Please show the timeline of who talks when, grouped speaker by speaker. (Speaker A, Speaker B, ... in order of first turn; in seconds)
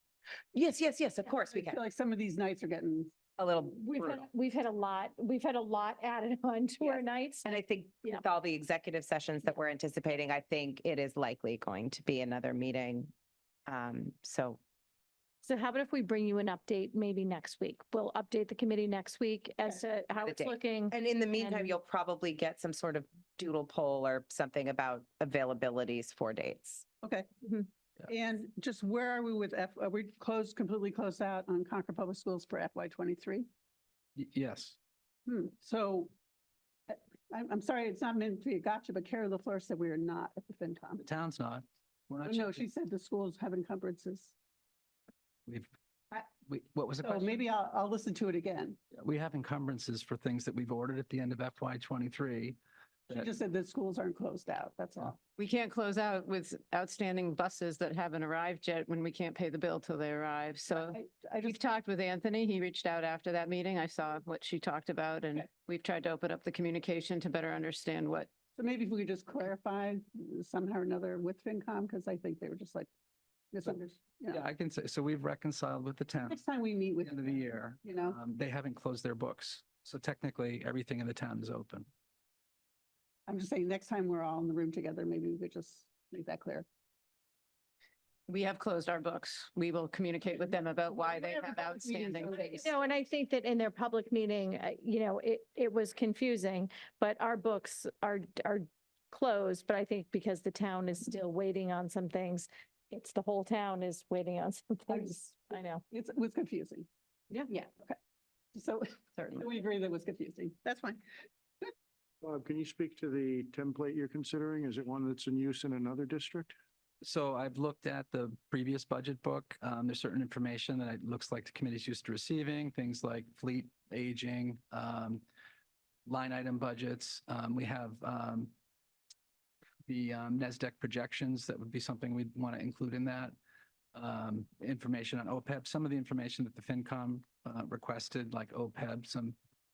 Speaker A: 0.5-1.8, 3.4-4.2, 6.8-13.1, 13.7-14.6, 20.2-26.8
Speaker B: 1.5-3.1, 27.0-27.3, 28.0-33.5, 35.2-36.1, 36.9-41.0, 42.2-44.3, 47.0-48.8, 53.1-55.2, 60.7-61.6, 68.5-72.9, 73.5-74.4, 76.2-78.2, 83.2-86.7, 90.9-92.7, 104.9-106.9, 107.5-108.0, 108.5-111.0
Speaker C: 3.9-7.5, 15.4-21.8, 92.5-105.8
Speaker D: 34.1-34.8, 41.0-42.6, 46.4-47.4, 48.9-52.6, 74.3-76.4, 77.0-81.9, 117.0-125.2, 126.0-128.5, 129.9-133.3, 133.9-139.3
Speaker E: 55.4-68.3, 88.3-92.6
Speaker F: 112.2-116.5